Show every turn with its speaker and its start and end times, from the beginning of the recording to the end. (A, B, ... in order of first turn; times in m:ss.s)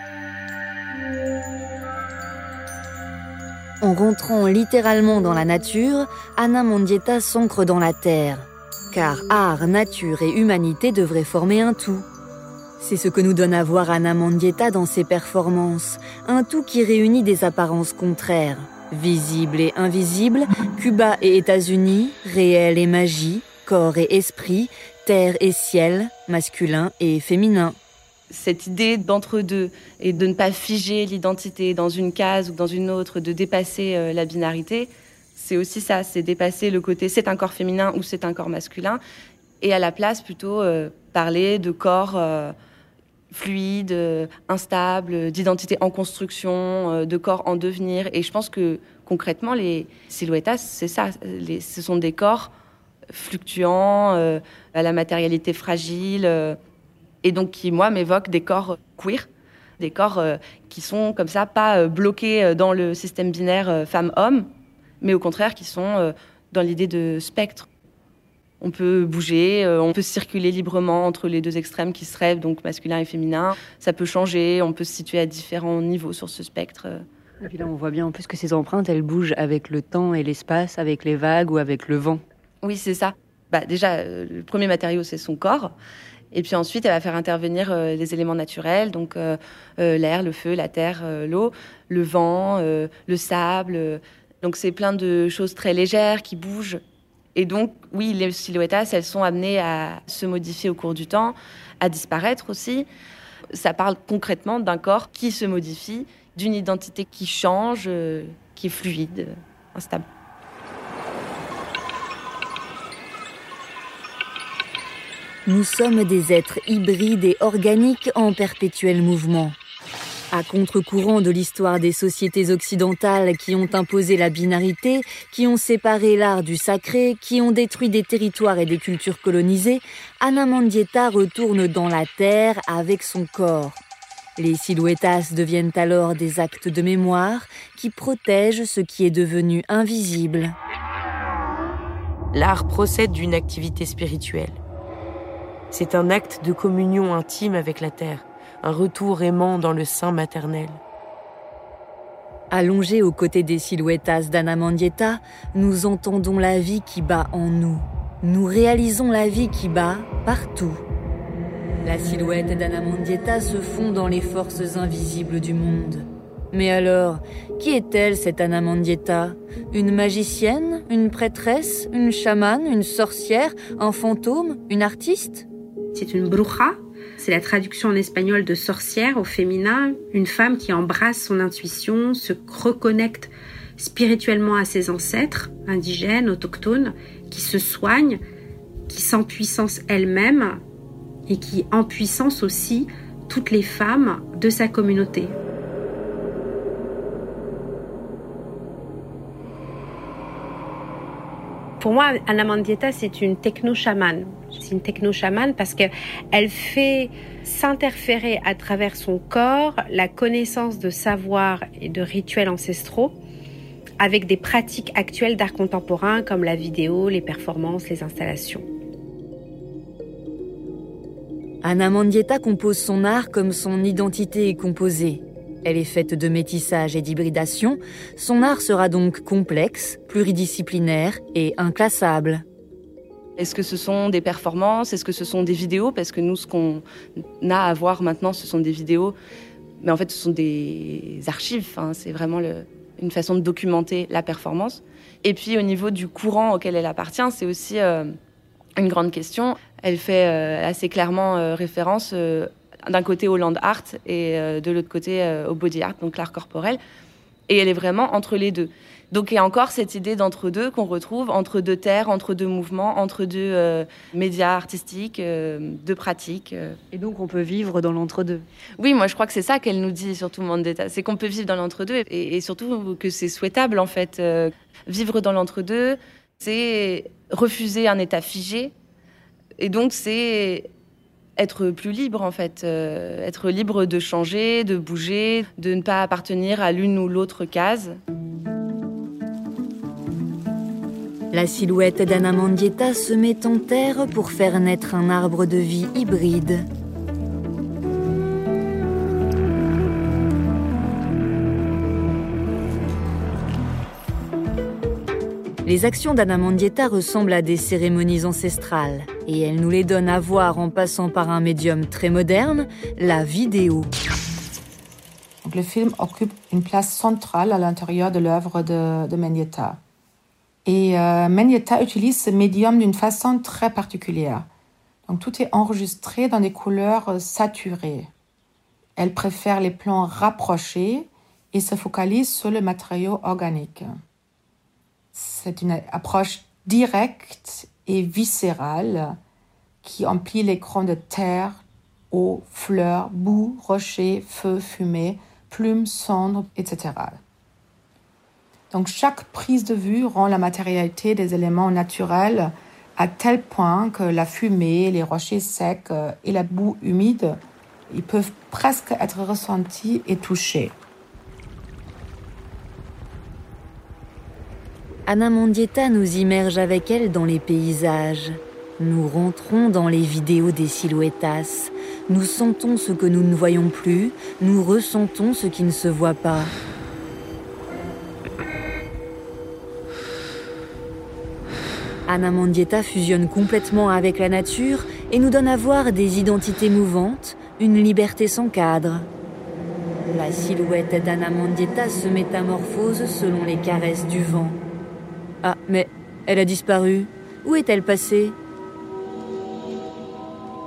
0:03.8-0:12.1 A
0:12.8-0:27.8 A
0:28.3-0:39.0 B
0:39.6-0:42.5 B
0:43.3-0:52.5 B
0:53.1-0:56.6 B
0:57.2-0:59.3 B
0:59.8-1:04.5 B
1:05.0-1:07.7 B
1:08.6-1:17.0 B
1:17.4-1:22.2 A
1:22.6-1:25.7 B
1:26.3-1:36.8 B
1:37.4-1:42.9 B
1:43.5-1:50.0 B
1:55.5-1:59.6 A
2:00.3-2:13.8 A
2:14.4-2:20.6 A
2:22.3-2:24.6 C
2:25.7-2:30.8 C
2:32.5-2:40.8 A
2:41.8-2:55.5 A
2:56.0-3:08.2 D
3:08.9-3:10.6 D
3:11.3-3:15.4 D
3:21.8-3:33.2 D
3:34.0-3:38.7 D
3:41.6-3:52.4 A
3:53.4-3:56.8 B
3:57.4-3:59.2 B
3:59.8-4:08.1 B
4:08.8-4:16.8 B
4:17.5-4:26.8 B
4:26.9-4:28.5 A
4:28.8-4:38.7 B
4:39.6-4:40.7 B
4:41.4-4:48.0 B
4:51.3-4:56.7 A
5:05.6-5:13.9 A
5:15.4-5:19.8 E
5:20.6-5:24.5 E
5:25.1-5:28.1 E
5:29.0-5:33.9 E
5:35.1-5:39.2 E
5:39.8-5:47.2 E
5:48.7-5:57.4 E
5:57.9-6:00.8 E
6:05.1-6:16.5 A
6:22.1-6:29.1 A
6:30.0-6:34.6 A
6:35.4-6:38.4 A